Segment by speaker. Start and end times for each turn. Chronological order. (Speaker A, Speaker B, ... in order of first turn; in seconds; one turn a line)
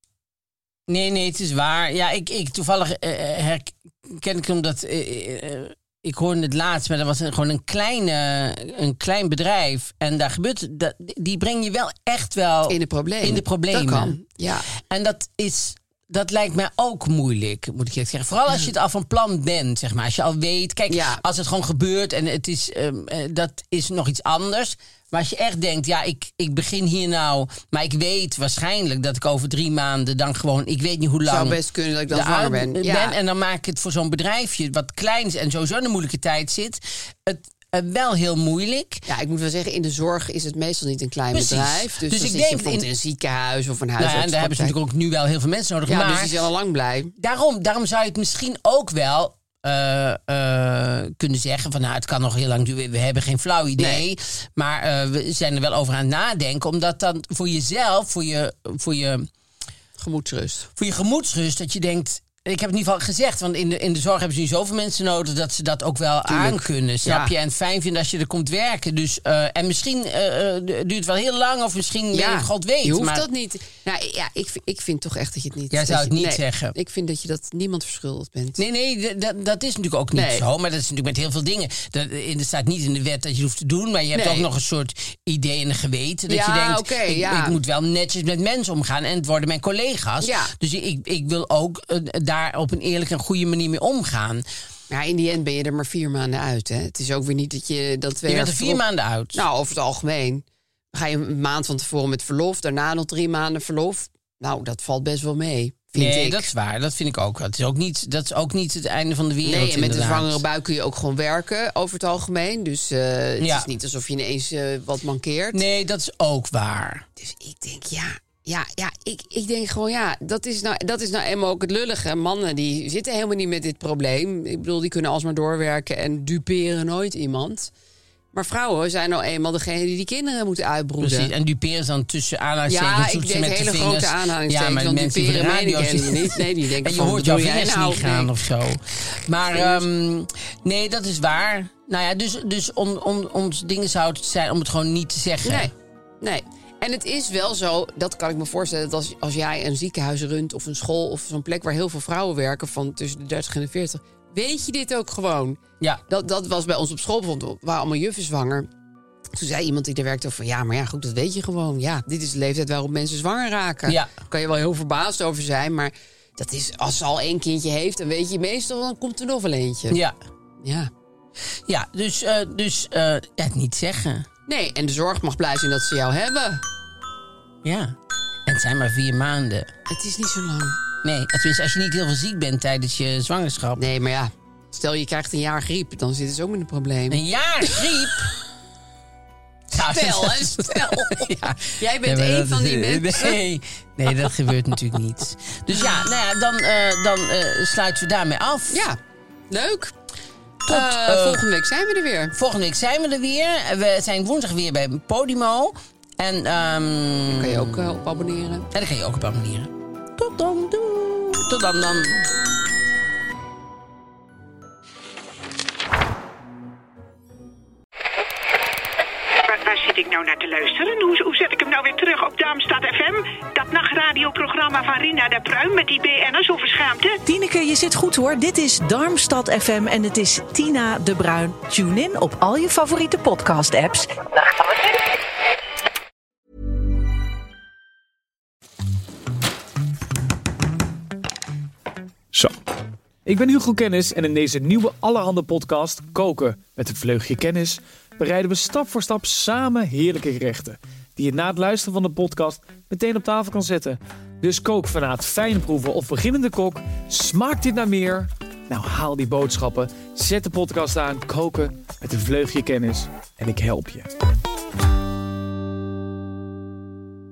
Speaker A: 0.9-31.6
Speaker B: 12.7-14.7
Speaker B: 20.9-21.2
Speaker B: 31.2-33.1
Speaker A: 32.1-39.0
Speaker B: 39.1-44.8
Speaker A: 41.3-42.9
Speaker A: 44.0-46.3
Speaker B: 45.9-47.1
Speaker A: 47.2-59.3
Speaker B: 53.8-54.0
Speaker B: 60.0-60.7
Speaker A: 60.8-73.3
Speaker B: 66.2-67.3
Speaker B: 72.1-78.6
Speaker A: 75.7-76.7
Speaker A: 78.6-94.4
Speaker B: 80.1-80.4
Speaker B: 84.1-84.5
Speaker B: 86.3-87.6
Speaker B: 90.2-90.5
Speaker B: 94.9-98.8
Speaker A: 98.2-99.4
Speaker B: 99.3-106.5
Speaker A: 105.9-110.4
Speaker B: 109.4-115.6
Speaker A: 113.4-113.7
Speaker A: 115.5-117.0
Speaker B: 117.2-127.7
Speaker B: 128.3-131.3
Speaker A: 131.0-145.7
Speaker B: 132.7-138.3
Speaker B: 139.5-139.8
Speaker B: 145.4-158.7
Speaker B: 159.3-170.0
Speaker A: 163.8-164.1
Speaker A: 169.9-170.2
Speaker B: 170.6-170.9
Speaker A: 171.7-174.3
Speaker B: 174.5-176.6
Speaker A: 177.6-179.7
Speaker B: 179.9-180.8
Speaker A: 181.0-183.9
Speaker B: 183.8-187.7
Speaker A: 187.1-188.3
Speaker A: 189.7-198.8
Speaker B: 189.7-193.4
Speaker B: 198.7-199.0
Speaker B: 199.5-199.9
Speaker A: 200.6-201.4
Speaker B: 200.7-202.3
Speaker A: 202.3-208.0
Speaker B: 207.3-208.7
Speaker A: 208.7-212.3
Speaker C: 219.4-227.2
Speaker D: 227.2-234.9
Speaker E: 243.2-264.1